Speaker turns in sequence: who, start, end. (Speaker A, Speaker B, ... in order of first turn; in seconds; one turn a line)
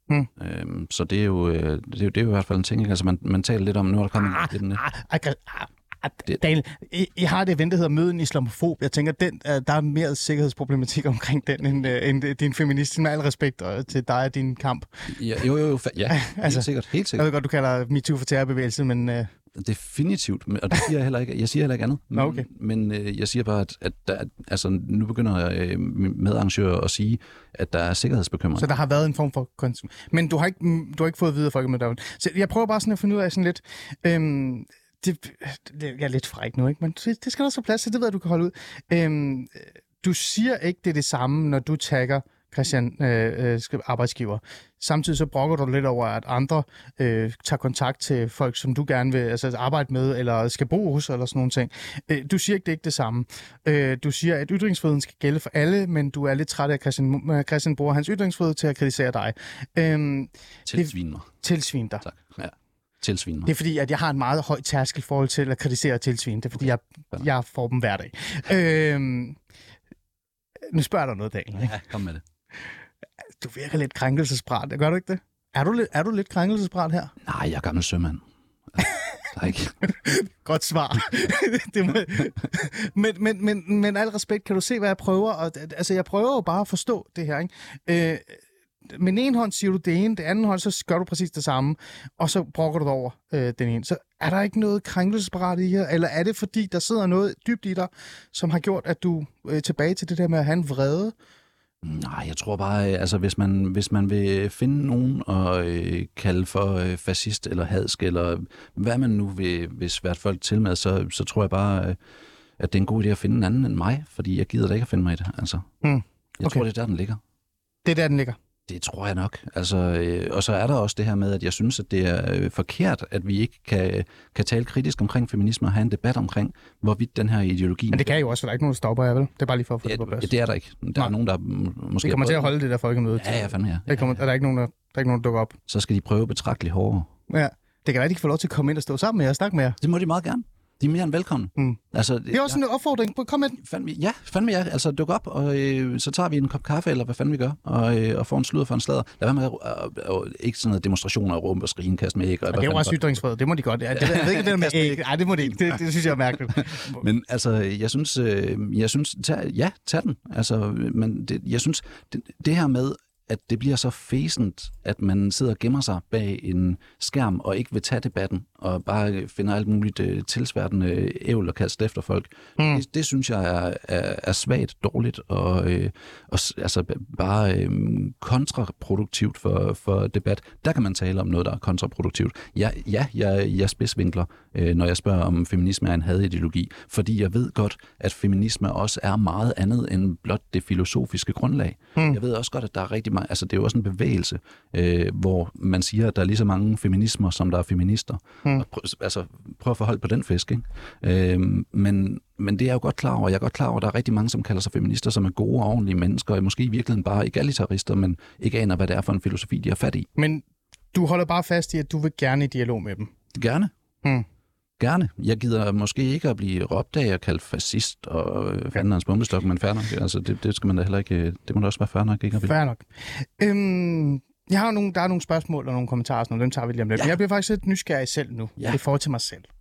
Speaker A: 0.4-4.8
Speaker B: 4.3-15.2
Speaker A: 15.1-17.3
Speaker B: 16.1-19.3
Speaker A: 19.6-28.7
Speaker B: 22.1-22.5
Speaker B: 28.6-62.0
Speaker A: 60.7-61.3
Speaker A: 62.0-63.5
Speaker B: 63.5-69.4
Speaker B: 70.6-71.8
Speaker A: 71.6-72.2
Speaker B: 73.4-77.1
Speaker A: 77.2-78.2
Speaker A: 78.8-79.9
Speaker B: 78.8-79.2
Speaker B: 79.8-101.1
Speaker A: 101.8-112.0
Speaker A: 112.6-115.7
Speaker B: 115.8-116.6
Speaker A: 116.4-117.2
Speaker B: 117.8-118.4
Speaker A: 118.7-128.1
Speaker B: 127.9-130.3
Speaker A: 129.8-132.5
Speaker B: 132.0-135.6
Speaker A: 133.2-134.2
Speaker A: 135.7-137.1
Speaker B: 137.3-139.8
Speaker A: 139.8-142.6
Speaker B: 142.3-143.6
Speaker A: 143.6-153.1
Speaker B: 152.5-157.0
Speaker A: 153.9-210.1
Speaker B: 172.6-172.8
Speaker B: 210.2-213.1
Speaker A: 213.3-213.7
Speaker A: 214.8-222.5
Speaker B: 222.4-229.5